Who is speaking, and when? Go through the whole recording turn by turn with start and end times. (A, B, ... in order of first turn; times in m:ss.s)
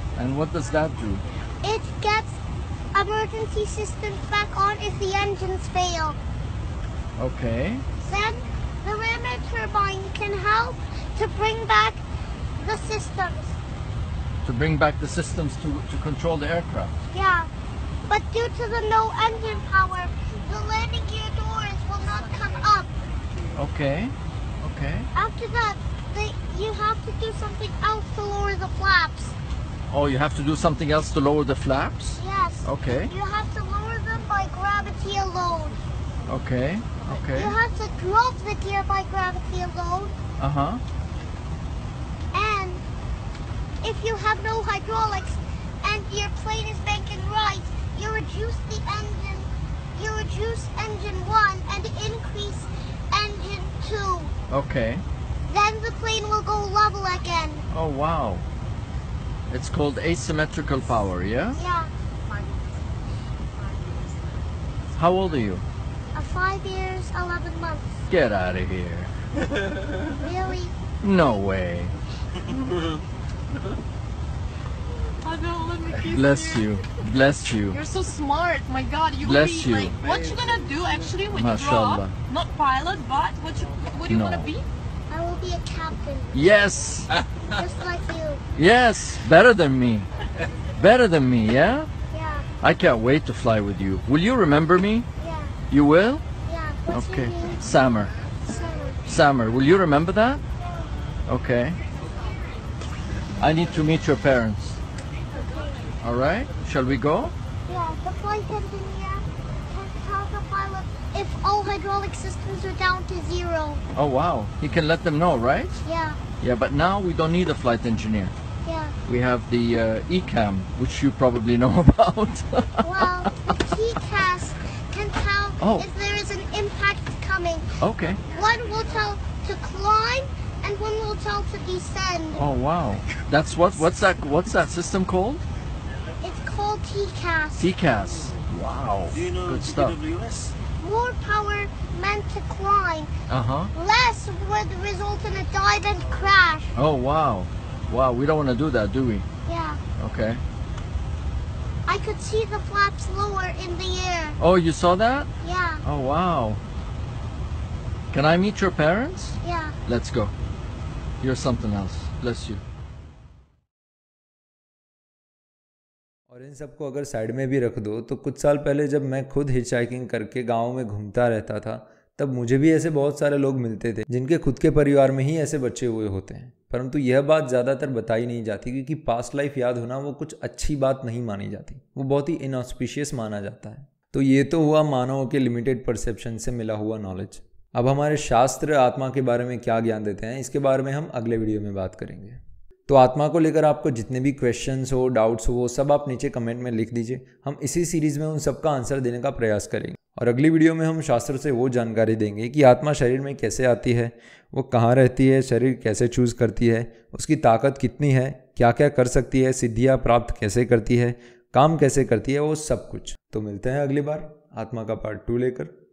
0:00.2-0:01.2 A
0:01.6-0:02.4 B
0:02.9-0:06.2 B
0:07.2-0:07.8 A
0:08.0-0:12.0 B
0:12.6-0:13.6 B
0:14.4-0:17.0 A
0:17.1-0:17.5 B
0:18.1-0:22.9 B
0:23.6-0:25.1 A
0:25.2-0:29.4 B
0:29.9-0:33.1 A
0:32.2-0:35.8 B
0:36.3-0:37.6 A
0:37.4-0:40.2 B
0:40.4-0:40.8 A
0:42.3-0:42.8 B
0:43.8-0:54.3 B
0:54.5-0:55.0 A
0:55.5-0:57.6 B
0:57.7-0:58.5 A
0:59.5-1:01.6 A
1:01.6-1:01.9 B
1:04.9-1:05.6 A
1:06.1-1:08.0 B
1:08.1-1:09.1 A
1:10.2-1:10.8 B
1:11.0-1:11.9 A
1:15.2-1:16.7 C
1:16.1-1:17.8 A
1:17.7-1:24.6 C
1:19.2-1:20.2 A
1:21.3-1:22.2 A
1:24.1-1:24.6 A
1:25.1-1:26.3 B
1:26.3-1:27.2 A
1:27.5-1:28.4 B
1:28.6-1:30.1 A
1:30.8-1:31.9 A
1:32.1-1:32.5 B
1:32.6-1:35.1 A
1:35.2-1:35.6 B
1:35.7-1:36.2 A
1:36.5-1:37.6 B
1:36.9-1:38.1 A
1:38.4-1:39.0 B
1:39.1-1:40.4 A
1:41.3-1:41.8 A
1:43.4-1:44.8 A
1:45.4-1:45.9 B
1:46.0-1:47.3 A
1:47.7-1:53.8 B
1:53.9-1:55.8 A
1:55.8-1:56.2 B
1:56.4-1:58.3 A
1:58.6-1:59.0 B
1:59.0-2:03.3 A
2:02.8-2:07.7 B
2:05.6-2:05.9 A
2:07.8-2:08.2 A
2:08.3-2:12.4 B
2:12.4-2:15.4 A
2:16.2-2:17.7 B
2:17.6-2:20.1 A
2:20.8-2:23.1 B
2:23.3-2:23.7 A
2:23.8-2:26.7 B
2:26.8-2:29.3 A
2:29.5-2:29.8 B
2:30.0-2:30.4 A
2:31.9-2:34.4 B
2:34.4-2:35.3 A
2:35.4-2:35.8 B
2:35.8-2:36.6 A
2:38.1-2:40.3 A
2:39.4-2:39.8 B
2:41.2-2:42.6 A
2:46.3-3:35.8 D